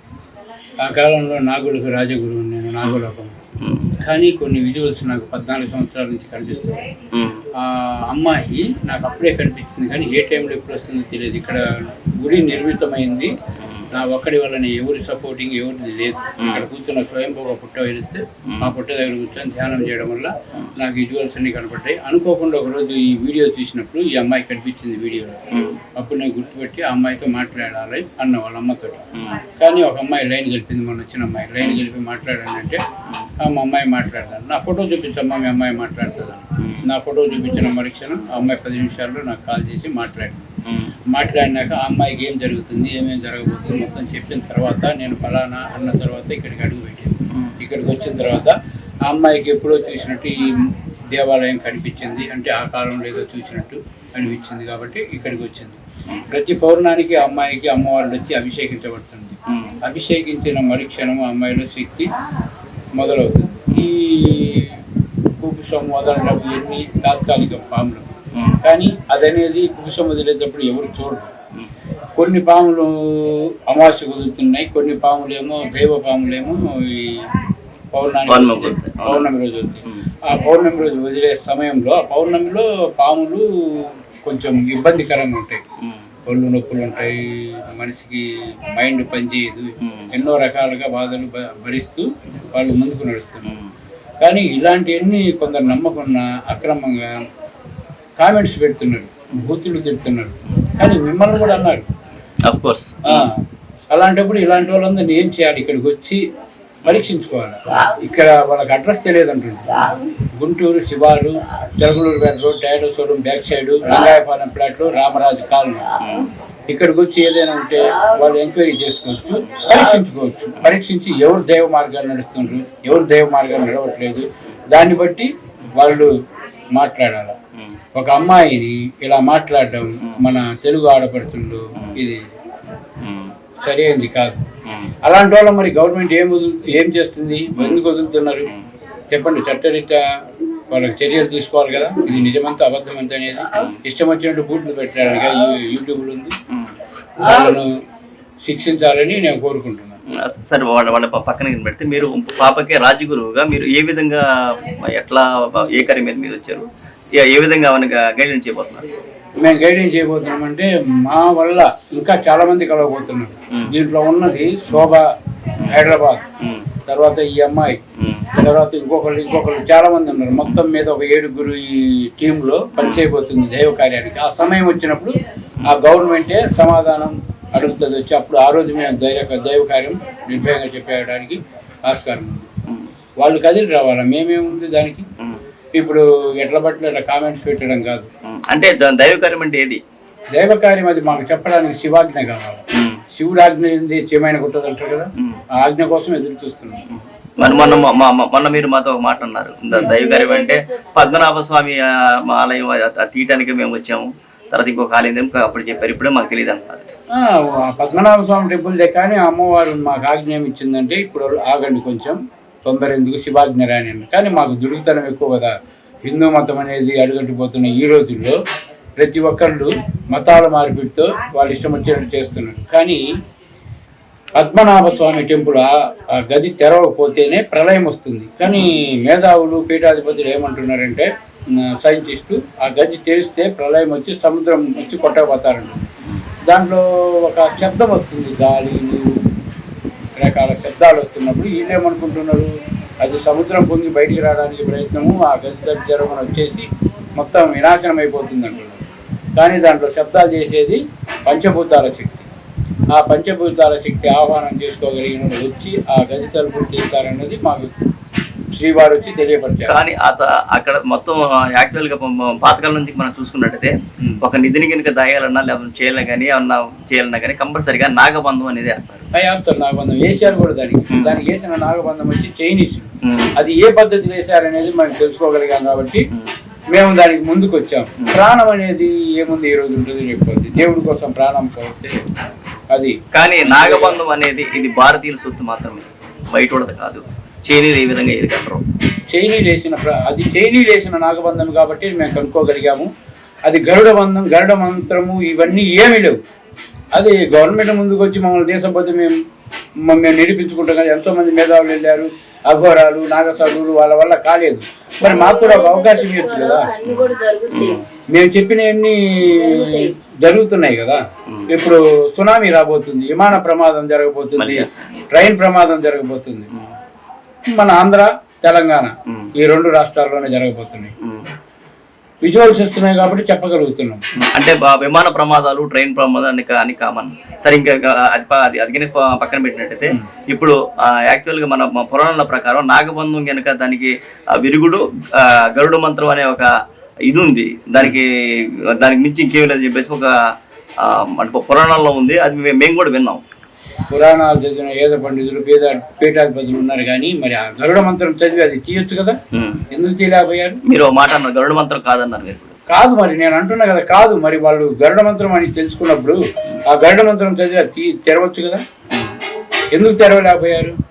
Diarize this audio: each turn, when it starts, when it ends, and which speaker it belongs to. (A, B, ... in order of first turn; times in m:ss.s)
0:00.8-0:03.3 A
0:03.6-0:03.9 B
0:04.0-0:06.8 A
0:07.1-0:07.4 B
0:07.6-0:13.3 A
0:13.6-0:13.8 B
0:13.9-0:25.4 A
0:18.4-0:18.7 B
0:25.5-0:25.8 B
0:25.9-0:32.8 A
0:29.1-0:29.4 B
0:33.4-0:40.4 A
0:36.6-0:36.8 B
0:40.6-0:40.9 B
0:41.1-1:02.1 A
0:47.3-0:47.6 B
0:59.5-0:59.7 B
1:02.9-1:04.8 A
1:05.4-1:08.1 A
1:08.6-1:11.3 A
1:12.2-1:17.2 A
1:17.9-1:25.6 A
1:18.3-1:19.3 B
1:26.3-1:33.5 A
1:29.8-1:30.1 B
1:33.4-1:33.7 B
1:34.2-1:37.1 A
1:38.2-1:41.9 A
1:42.4-1:43.3 B
1:43.0-1:46.2 A
1:46.8-1:49.8 A
1:50.4-1:55.9 A
1:56.0-1:56.3 B
1:56.7-2:06.1 A
2:06.8-2:07.3 A
2:07.9-2:12.2 A
2:13.0-2:13.3 B
2:13.6-2:14.4 A
2:14.6-2:14.9 B
2:15.0-2:18.5 A
2:17.6-2:17.8 B
2:19.1-2:20.0 A
2:20.7-2:26.3 A
2:27.2-2:27.7 A
2:28.4-2:30.0 A
2:30.1-2:38.8 B
2:39.4-2:45.1 A
2:45.7-2:46.2 A
2:46.4-2:46.6 B
2:46.9-2:47.8 A
2:48.0-2:48.3 B
2:48.4-3:02.4 A
2:52.8-2:53.0 B
3:03.2-3:05.0 A
3:05.7-3:08.1 A
3:08.2-3:09.8 B
3:10.3-3:12.6 A
3:12.7-3:13.0 B
3:13.1-3:16.8 A
3:16.9-3:26.8 B
3:17.5-3:17.8 A
3:19.9-3:21.2 C
3:27.1-3:35.5 A
3:36.0-3:38.4 A
3:39.0-3:43.0 A
3:44.4-3:55.8 A
3:48.4-3:48.7 B
3:56.5-3:59.2 A
4:00.2-4:06.6 A
4:07.2-4:08.8 A
4:09.4-4:12.3 A
4:12.9-4:17.7 A
4:18.5-4:19.8 A
4:19.7-4:29.0 B
4:29.1-4:36.0 A
4:30.9-4:31.2 B
4:33.0-4:33.3 B
4:36.7-4:42.0 A
4:42.7-4:44.0 A
4:43.1-4:48.6 B
4:49.1-4:52.9 A
4:53.4-4:56.2 A
4:56.9-4:59.1 A
4:59.8-5:06.7 A
5:05.1-5:07.8 C
5:06.8-5:07.9 B
5:08.1-5:16.5 A
5:09.5-5:09.8 C
5:11.2-5:11.5 B
5:14.4-5:15.1 B
5:17.5-5:20.9 A
5:21.0-5:21.3 B
5:22.2-5:24.0 A
5:24.2-5:30.6 B
5:31.1-5:36.5 B
5:37.1-5:38.1 B
5:38.7-5:40.1 B
5:40.8-5:43.2 B
5:43.9-5:49.2 A
5:49.3-5:49.6 B
5:49.7-5:50.6 A
5:50.6-5:52.6 B
5:52.7-5:58.6 A
5:58.9-5:59.2 B
5:59.7-6:00.8 A